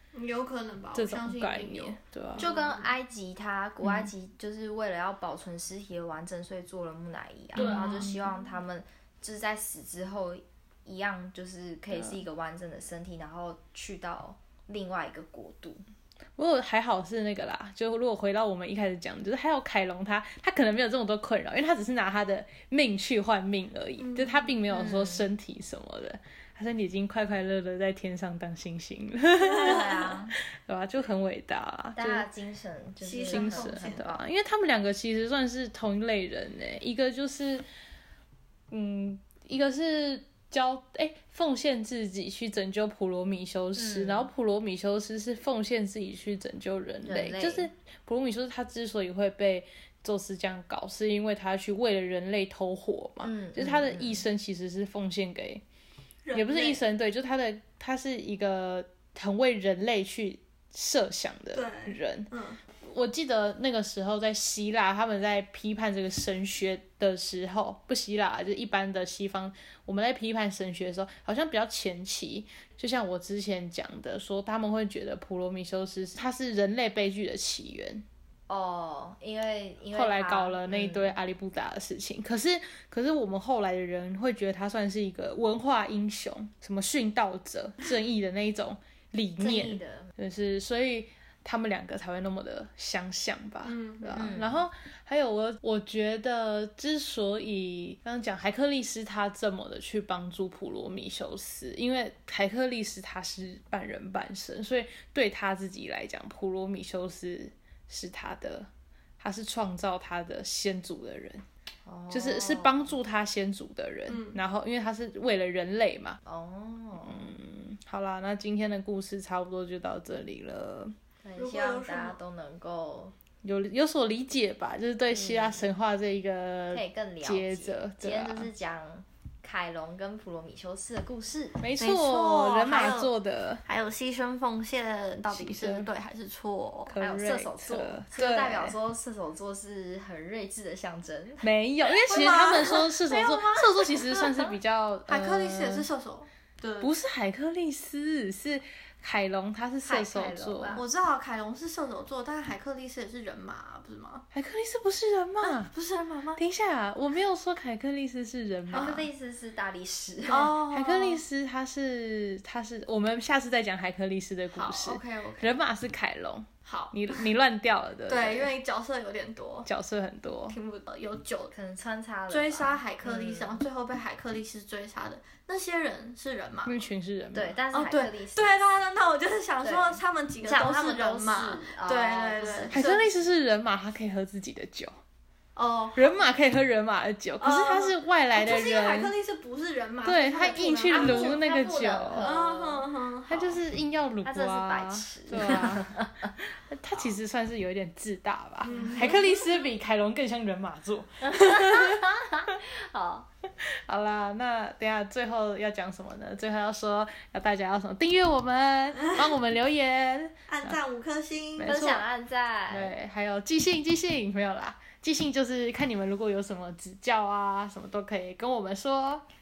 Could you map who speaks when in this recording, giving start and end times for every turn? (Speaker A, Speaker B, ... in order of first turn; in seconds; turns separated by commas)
Speaker A: 0.1-2.9, Speaker B: 0.9-2.5, Speaker C: 2.4-15.8, Speaker B: 3.8-4.1, Speaker B: 7.5-8.3, Speaker A: 7.5-8.4, Speaker B: 11.9-12.2, Speaker B: 16.4-32.3, Speaker A: 24.0-24.6, Speaker C: 24.7-25.3, Speaker A: 29.4-30.1, Speaker C: 29.6-30.3, Speaker C: 31.9-34.2, Speaker A: 33.0-34.1, Speaker B: 33.3-37.6, Speaker B: 38.7-55.6, Speaker C: 43.8-44.3, Speaker C: 47.0-47.7, Speaker C: 53.2-54.2, Speaker A: 56.2-56.8, Speaker B: 56.3-78.0, Speaker A: 61.5-62.6, Speaker C: 78.5-81.2, Speaker B: 79.9-108.7, Speaker C: 89.4-90.1, Speaker A: 93.6-94.4, Speaker C: 94.1-94.6, Speaker B: 109.2-111.4, Speaker C: 111.8-112.9, Speaker B: 112.1-116.2, Speaker A: 114.1-114.4, Speaker C: 116.2-117.3, Speaker B: 117.0-120.9, Speaker C: 121.2-123.1, Speaker A: 121.3-122.2, Speaker B: 123.4-128.5, Speaker C: 125.1-125.7, Speaker C: 126.7-131.6, Speaker B: 131.6-133.6, Speaker A: 131.8-133.1, Speaker A: 133.6-136.9, Speaker B: 135.3-135.9, Speaker B: 136.8-138.7, Speaker C: 137.0-141.5, Speaker B: 141.4-145.9, Speaker A: 141.8-144.5, Speaker A: 145.1-146.9, Speaker B: 146.8-150.8, Speaker C: 149.8-150.8, Speaker A: 150.7-154.2, Speaker B: 154.3-155.7, Speaker A: 155.4-156.4, Speaker B: 156.4-159.1, Speaker A: 158.7-159.0, Speaker C: 158.7-160.6, Speaker A: 160.3-161.2, Speaker B: 160.7-168.5, Speaker A: 164.5-165.6, Speaker A: 166.6-167.3, Speaker A: 168.1-169.7, Speaker B: 169.7-170.6, Speaker A: 170.5-171.5, Speaker C: 171.5-173.6, Speaker A: 172.3-176.7, Speaker B: 176.6-177.6, Speaker C: 177.3-178.5, Speaker A: 177.7-183.0, Speaker C: 179.6-182.9, Speaker B: 182.7-185.0, Speaker A: 185.6-186.3, Speaker B: 185.9-189.1, Speaker A: 187.4-191.4, Speaker B: 190.0-192.3, Speaker C: 190.3-192.9, Speaker A: 192.2-193.6, Speaker B: 193.3-202.0, Speaker C: 194.2-196.3, Speaker A: 198.6-199.7, Speaker C: 198.7-199.1, Speaker C: 201.2-203.3, Speaker B: 203.8-210.8, Speaker A: 210.5-211.7, Speaker B: 211.6-212.0, Speaker C: 211.6-212.9, Speaker B: 212.7-219.2